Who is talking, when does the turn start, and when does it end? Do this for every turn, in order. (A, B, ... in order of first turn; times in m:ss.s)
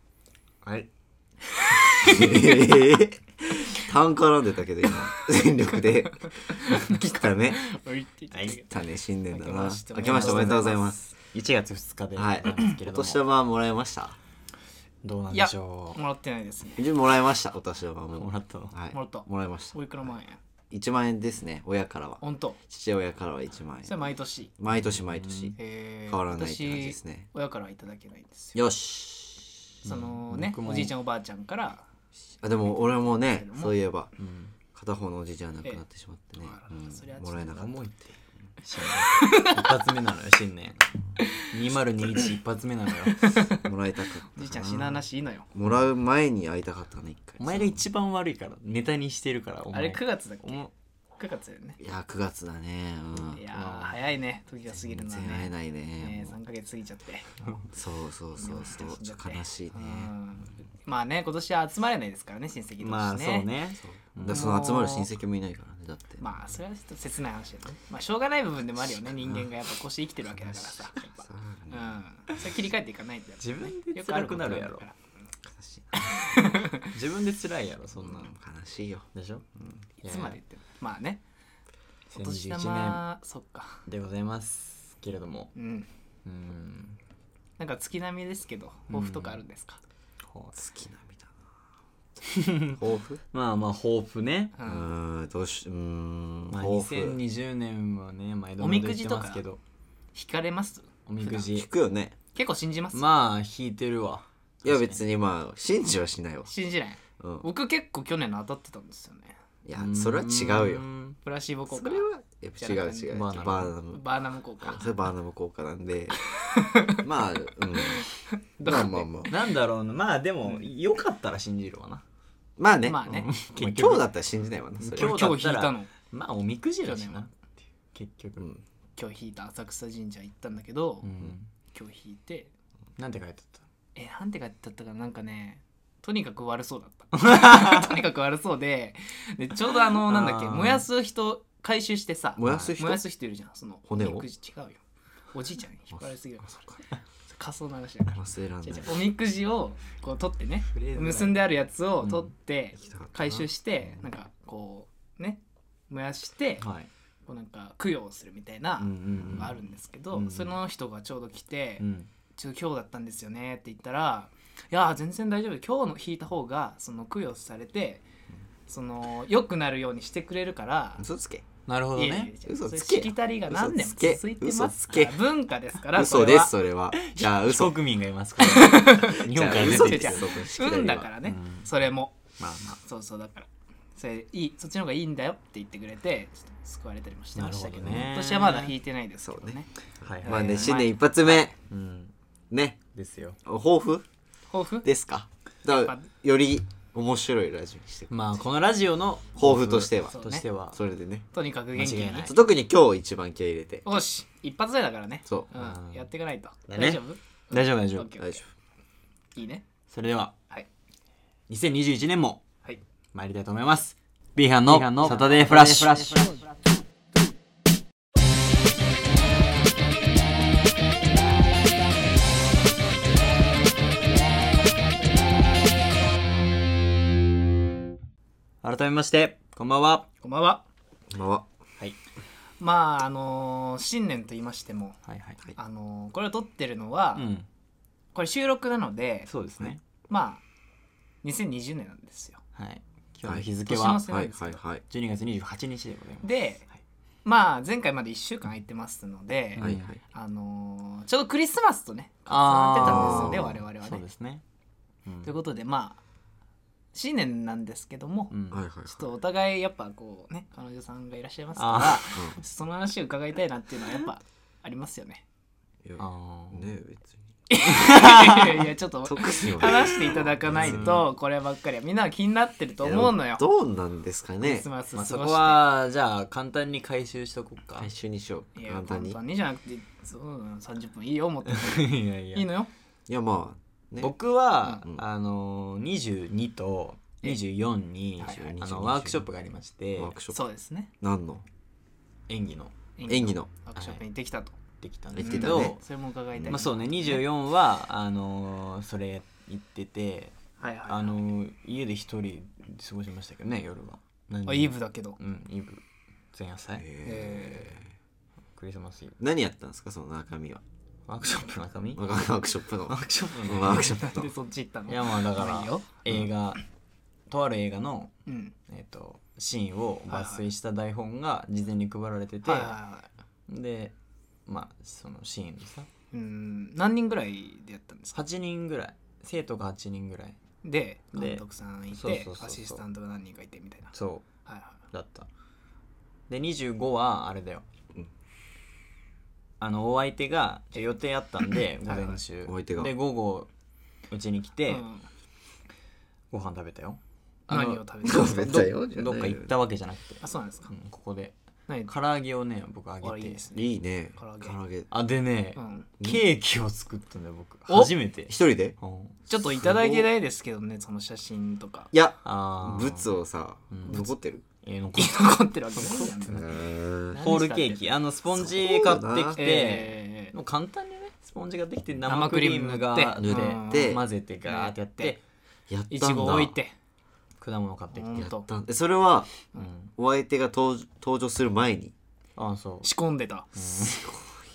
0:00.6-0:00.9 A
0:01.9-0:02.6 B
0:02.0-0:07.6 C
0:06.5-0:08.7 B
0:08.6-0:11.1 C
0:09.3-0:10.9 B
0:10.1-0:10.6 A
0:11.3-0:13.2 A
0:12.2-0:14.2 C
0:15.0-0:16.0 A
0:15.3-0:16.8 B
0:16.8-0:19.7 C
0:18.2-0:18.7 A
0:18.9-0:20.4 B
0:20.7-0:24.0 C
0:22.2-0:22.6 B
0:23.8-0:24.5 B
0:24.6-0:25.6 C
0:24.7-0:25.6 A
0:25.6-0:28.6 B
0:26.1-0:27.3 C
0:28.6-0:29.6 C
0:29.8-0:30.9 A
0:29.8-0:31.8 B
0:32.4-0:34.1 C
0:33.2-0:33.8 B
0:34.2-0:34.6 A
0:34.8-0:37.8 C
0:36.4-0:37.8 B
0:37.5-0:40.9 A
0:39.1-0:39.8 B
0:41.5-0:43.5 A
0:43.2-0:43.7 B
0:43.6-0:45.0 C
0:44.4-0:45.5 B
0:45.5-0:47.8 C
0:47.4-0:50.7 A
0:49.7-0:50.7 B
0:51.2-0:51.8 B
0:51.8-0:53.4 C
0:53.3-0:57.5 B
0:53.5-0:54.0 A
0:54.8-0:56.4 C
0:57.7-1:00.1 C
0:58.4-1:03.5 B
1:02.8-1:04.5 A
1:03.8-1:06.2 C
1:04.3-1:05.1 B
1:06.2-1:15.0 B
1:09.2-1:09.5 C
1:10.3-1:12.0 C
1:13.4-1:14.8 A
1:15.5-1:16.0 C
1:16.0-1:16.9 B
1:16.8-1:18.3 A
1:18.0-1:19.8 C
1:19.1-1:19.4 A
1:20.0-1:21.2 B
1:20.0-1:20.4 A
1:22.1-1:23.0 A
1:22.2-1:23.8 B
1:23.9-1:25.5 A
1:25.6-1:25.9 B
1:26.3-1:27.0 A
1:27.6-1:29.8 B
1:28.9-1:29.4 A
1:30.2-1:30.6 A
1:30.6-1:31.3 C
1:32.3-1:32.8 A
1:32.8-1:33.2 C
1:33.3-1:34.5 A
1:34.6-1:34.9 B
1:34.7-1:37.2 C
1:36.5-1:39.6 A
1:38.6-1:39.4 B
1:40.2-1:41.5 B
1:41.1-1:41.7 A
1:41.5-1:42.2 C
1:42.4-1:43.0 B
1:42.9-1:45.0 A
1:44.6-1:46.5 C
1:46.5-1:49.4 B
1:47.2-1:47.5 C
1:49.6-1:50.8 C
1:49.8-1:51.2 A
1:51.2-1:52.1 B
1:51.7-1:54.0 C
1:52.6-1:53.2 B
1:53.1-1:53.7 A
1:53.9-1:54.9 B
1:54.6-1:56.2 C
1:56.4-1:57.0 B
1:57.0-1:58.1 C
1:57.8-1:59.1 B
1:58.6-1:59.3 C
1:59.3-2:02.0 A
2:02.6-2:05.4 C
2:02.8-2:03.3 B
2:03.1-2:04.1 A
2:04.9-2:07.3 A
2:04.9-2:05.9 B
2:06.8-2:07.2 B
2:07.9-2:08.4 A
2:08.4-2:08.6 C
2:09.0-2:11.1 B
2:11.0-2:11.5 A
2:11.7-2:12.5 B
2:13.0-2:13.6 A
2:14.0-2:24.8 B
2:17.1-2:18.0 A
2:20.1-2:20.9 A
2:22.4-2:23.0 C
2:22.4-2:22.8 A
2:23.9-2:24.3 C
2:25.3-2:36.7 B
2:28.1-2:29.0 C
2:30.7-2:31.4 A
2:32.0-2:32.3 A
2:32.8-2:34.0 C
2:36.6-2:36.9 A
2:37.3-2:41.8 B
2:38.8-2:39.6 A
2:40.1-2:40.6 A
2:41.8-2:42.1 A
2:42.4-2:48.0 B
2:48.7-2:51.0 B
2:51.0-2:51.5 C
2:51.7-2:52.3 A
2:52.0-2:56.5 B
2:52.5-2:55.2 C
2:55.9-2:57.8 C
2:56.9-3:00.2 A
2:58.4-3:02.2 B
2:59.3-3:01.1 C
3:01.2-3:01.7 A
3:02.4-3:02.8 A
3:02.8-3:09.7 B
3:07.4-3:08.7 A
3:07.8-3:08.1 C
3:09.2-3:09.6 C
3:10.0-3:10.8 A
3:10.2-3:11.5 C
3:10.2-3:11.4 B
3:11.6-3:12.1 A
3:12.5-3:12.8 C
3:12.9-3:13.4 A
3:13.5-3:14.0 C
3:14.5-3:14.9 B
3:14.8-3:18.4 C
3:15.8-3:16.1 B
3:18.1-3:20.8 A
3:19.4-3:20.2 C
3:20.1-3:20.4 B
3:20.7-3:21.2 C
3:21.3-3:22.3 B
3:21.8-3:22.3 A
3:22.3-3:23.9 C
3:23.9-3:28.4 B
3:25.5-3:26.1 A
3:26.7-3:28.1 A
3:29.4-3:29.6 B
3:29.9-3:30.4 A
3:31.5-3:32.4 A
3:33.1-3:36.4 A
3:34.7-3:36.4 C
3:48.6-3:50.1 A
3:50.2-3:50.6 B
3:51.1-3:51.5 C
3:52.6-3:55.0 B
3:55.1-3:55.4 A
3:55.6-3:57.2 B
3:57.2-3:57.5 A
3:58.1-3:59.3 B
3:59.3-3:59.8 A
4:00.1-4:00.4 B
4:01.2-4:02.4 B
4:02.6-4:04.1 A
4:03.7-4:04.6 B
4:04.0-4:04.8 C
4:04.9-4:06.3 A
4:06.2-4:06.6 B
4:07.2-4:14.0 B
4:09.6-4:10.0 A
4:09.6-4:10.0 C
4:12.3-4:14.4 A
4:12.8-4:13.6 C
4:15.1-4:15.3 A
4:15.2-4:16.0 B
4:16.9-4:18.3 B
4:18.3-4:18.6 A
4:18.5-4:19.0 C
4:18.9-4:25.2 B
4:21.6-4:22.4 A
4:25.8-4:27.2 C
4:26.0-4:26.7 A
4:27.5-4:33.4 B
4:27.6-4:28.6 A
4:29.0-4:31.0 C
4:30.5-4:31.0 A
4:32.8-4:34.7 C
4:34.4-4:35.6 B
4:34.9-4:37.9 A
4:37.8-4:39.2 C
4:38.6-4:42.7 B
4:41.5-4:42.5 A
4:43.1-4:44.1 C
4:44.0-4:50.2 A
4:48.2-4:49.2 C
4:50.0-4:50.4 C
4:50.3-4:50.9 B
4:51.0-4:51.4 C
4:52.3-4:52.8 A
4:53.0-4:54.6 B
4:53.1-4:53.5 C
4:53.8-4:54.0 A
4:54.8-4:55.8 A
4:55.1-4:55.8 C
4:55.2-4:57.2 B
4:56.3-4:56.6 C
4:56.5-5:00.4 A
5:00.6-5:01.2 B
5:00.9-5:06.9 A
5:04.5-5:05.2 B
5:06.8-5:07.8 C
5:07.0-5:07.8 B
5:08.6-5:09.2 A
5:09.2-5:10.6 C
5:11.1-5:12.0 A
5:12.0-5:14.3 C
5:12.9-5:13.9 A
5:13.7-5:16.0 B
5:14.9-5:16.6 A
5:17.3-5:18.1 A
5:18.3-5:18.5 B
5:18.7-5:22.8 A
5:20.1-5:20.4 B
5:22.4-5:23.1 B
5:23.5-5:23.9 A
5:24.5-5:25.9 A
5:26.1-5:28.2 B
5:28.1-5:30.4 A
5:30.6-5:33.9 B
5:31.2-5:32.8 A
5:33.9-5:34.3 A
5:34.5-5:34.8 B
5:34.9-5:35.3 A
5:36.3-5:37.6 A
5:39.6-5:43.5 A
5:41.8-5:42.2 B
5:42.5-5:42.9 C
5:44.1-5:44.8 A
5:44.7-5:45.0 B
5:46.3-5:51.3 A
5:47.5-5:48.7 B
5:48.0-5:49.5 C
5:50.2-5:50.7 B
5:51.9-5:53.5 A
5:53.0-5:54.6 B
5:53.5-5:54.9 C
5:54.9-5:59.2 A
5:55.6-5:55.9 B
5:58.3-5:58.8 C
5:59.3-6:01.9 B
5:59.3-6:00.1 C
6:01.9-6:04.4 C
6:02.2-6:03.1 A
6:03.7-6:04.0 A
6:03.8-6:04.1 B
6:04.6-6:06.5 A
6:05.0-6:07.8 B
6:06.3-6:07.2 C
6:07.2-6:15.2 A
6:08.3-6:09.4 C
6:09.4-6:10.3 B
6:12.1-6:15.2 B
6:13.2-6:14.0 C
6:15.7-6:16.6 C
6:15.9-6:16.7 B
6:17.4-6:18.3 A
6:17.9-6:18.5 B
6:18.2-6:19.4 C
6:19.6-6:19.9 A
6:20.0-6:21.9 C
6:22.4-6:22.9 A
6:22.8-6:23.5 B
6:23.6-6:24.1 A
6:23.9-6:24.4 C